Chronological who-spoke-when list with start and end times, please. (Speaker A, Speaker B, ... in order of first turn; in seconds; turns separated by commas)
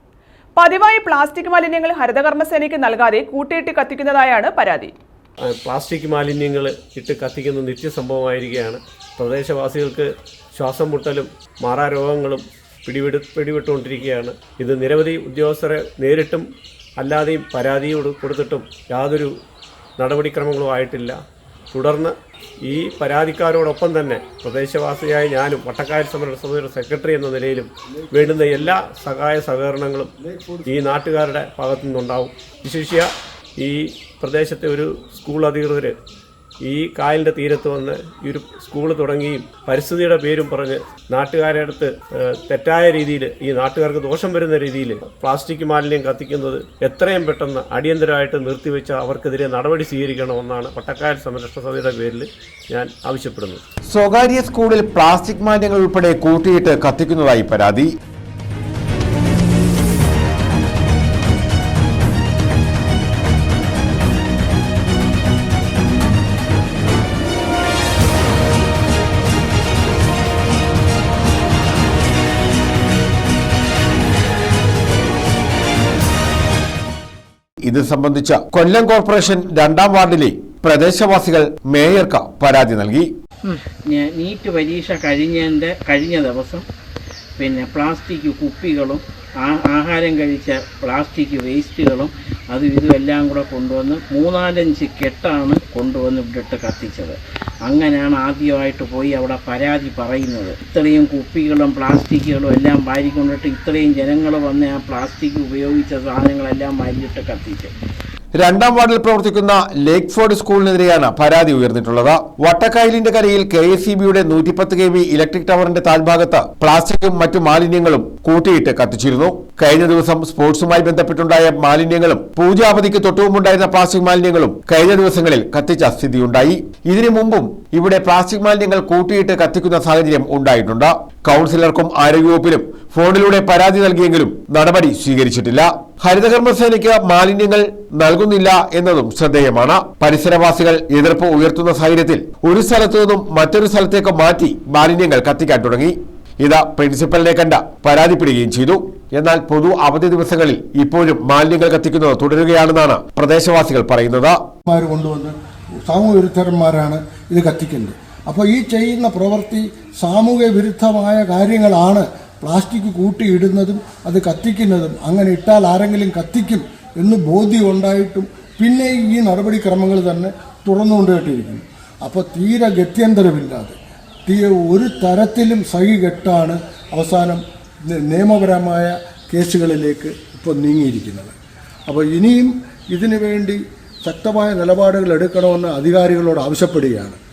Speaker A: 0.6-4.9, Speaker B: 5.5-16.4, Speaker B: 17.0-19.3, Speaker B: 20.0-21.2, Speaker B: 21.7-30.1, Speaker C: 28.1-28.7, Speaker C: 30.2-30.6, Speaker B: 30.6-36.0, Speaker B: 36.6-53.6, Speaker D: 53.9-57.9, Speaker D: 77.6-83.1, Speaker E: 83.4-86.6, Speaker E: 87.4-107.7, Speaker D: 108.3-154.4, Speaker C: 154.7-155.3, Speaker C: 155.8-181.3, Speaker C: 181.9-187.2